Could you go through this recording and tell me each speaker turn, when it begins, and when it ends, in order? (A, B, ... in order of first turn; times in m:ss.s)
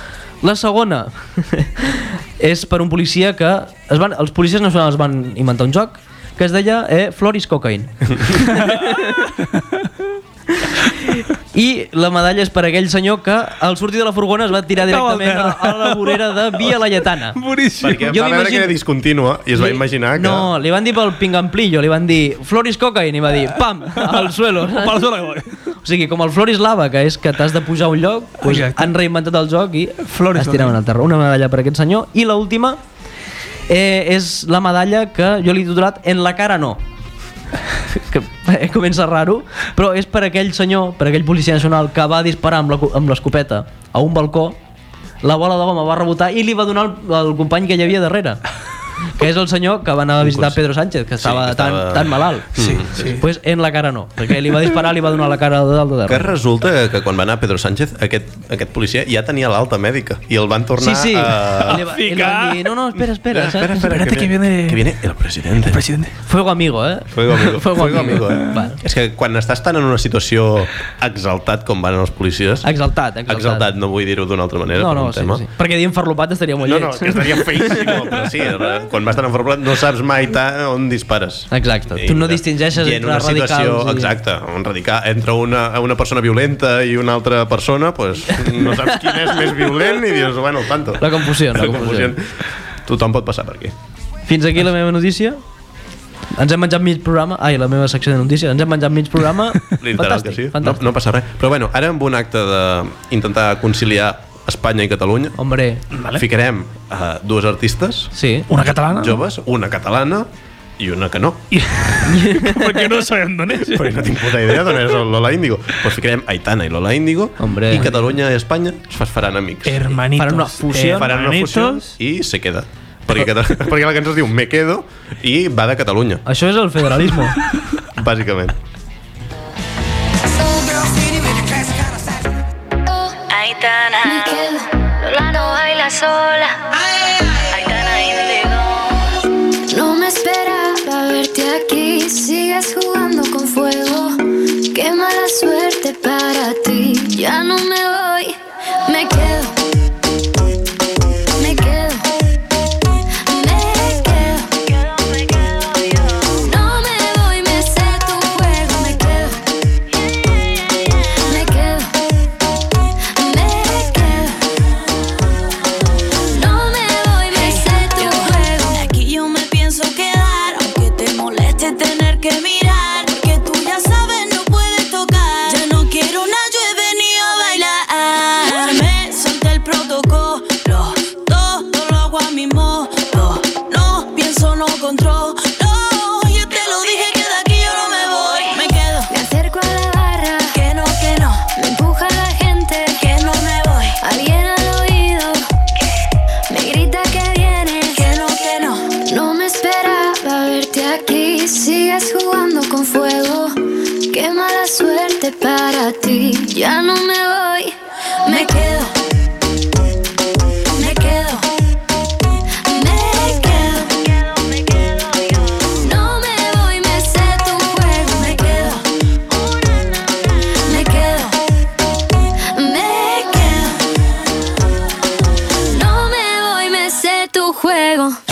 0:00.4-0:09.3 A
0:08.5-0:09.6 B
0:10.6-0:17.4 A
0:14.7-0:16.8 B
0:17.4-0:18.1 B
0:17.8-0:20.5 C
0:18.1-0:18.8 A
0:19.6-0:25.1 A
0:23.9-0:25.6 B
0:25.8-0:32.8 A
0:28.4-0:28.9 B
0:30.0-0:30.8 B
0:33.7-0:36.8 A
0:37.9-0:44.6 A
0:45.2-0:48.4 A
0:49.2-0:52.5 A
0:50.2-0:50.6 C
0:51.2-0:53.2 C
0:52.6-0:53.2 B
0:53.0-0:56.3 A
0:56.1-1:01.8 C
1:00.8-1:04.0 A
1:01.7-1:02.7 B
1:03.3-1:05.8 C
1:03.8-1:04.9 B
1:05.7-1:06.1 B
1:06.3-1:08.8 A
1:07.1-1:12.7 C
1:12.6-1:13.7 A
1:13.3-1:15.4 C
1:14.8-1:18.1 A
1:16.6-1:33.8 C
1:21.5-1:24.1 A
1:31.0-1:32.2 A
1:34.3-1:35.4 A
1:36.4-1:40.8 A
1:39.8-1:45.4 C
1:45.4-1:45.8 A
1:45.9-1:46.2 B
1:46.1-1:51.4 C
1:48.1-1:48.5 A
1:48.5-1:49.2 B
1:51.5-1:54.8 B
1:52.0-1:53.0 A
1:53.6-2:00.0 C
1:57.4-1:57.9 A
1:59.7-2:01.9 B
2:00.2-2:01.1 A
2:00.9-2:06.2 C
2:06.3-2:07.4 A
2:08.0-2:08.6 C
2:13.3-2:14.4 D
2:14.0-2:16.7 E
2:17.4-2:18.9 D
2:19.7-2:29.6 E
2:31.4-2:32.1 E
2:33.3-2:34.6 E
2:34.8-2:36.4 D
2:36.4-2:39.4 E
2:40.0-2:41.2 D
2:41.3-2:41.9 E
2:43.1-2:44.4 E
2:46.3-2:48.8 E
2:47.3-3:09.1 D
3:09.1-3:10.6 E
3:10.5-3:11.5 D
3:11.6-3:13.0 E
3:13.0-3:14.0 D
3:14.0-3:15.4 E
3:16.5-3:18.0 E
3:17.9-3:18.9 D
3:19.0-3:23.6 E
3:24.1-3:28.6 E
3:28.3-3:28.9 D
3:30.8-3:31.4 D
3:32.7-3:33.6 E
3:33.4-3:35.7 D
3:35.8-3:38.7 E
3:38.2-3:38.8 D
3:40.7-3:41.2 E
3:40.7-3:41.3 D
3:42.5-3:43.5 E
3:43.3-3:43.7 D
3:45.7-3:48.2 E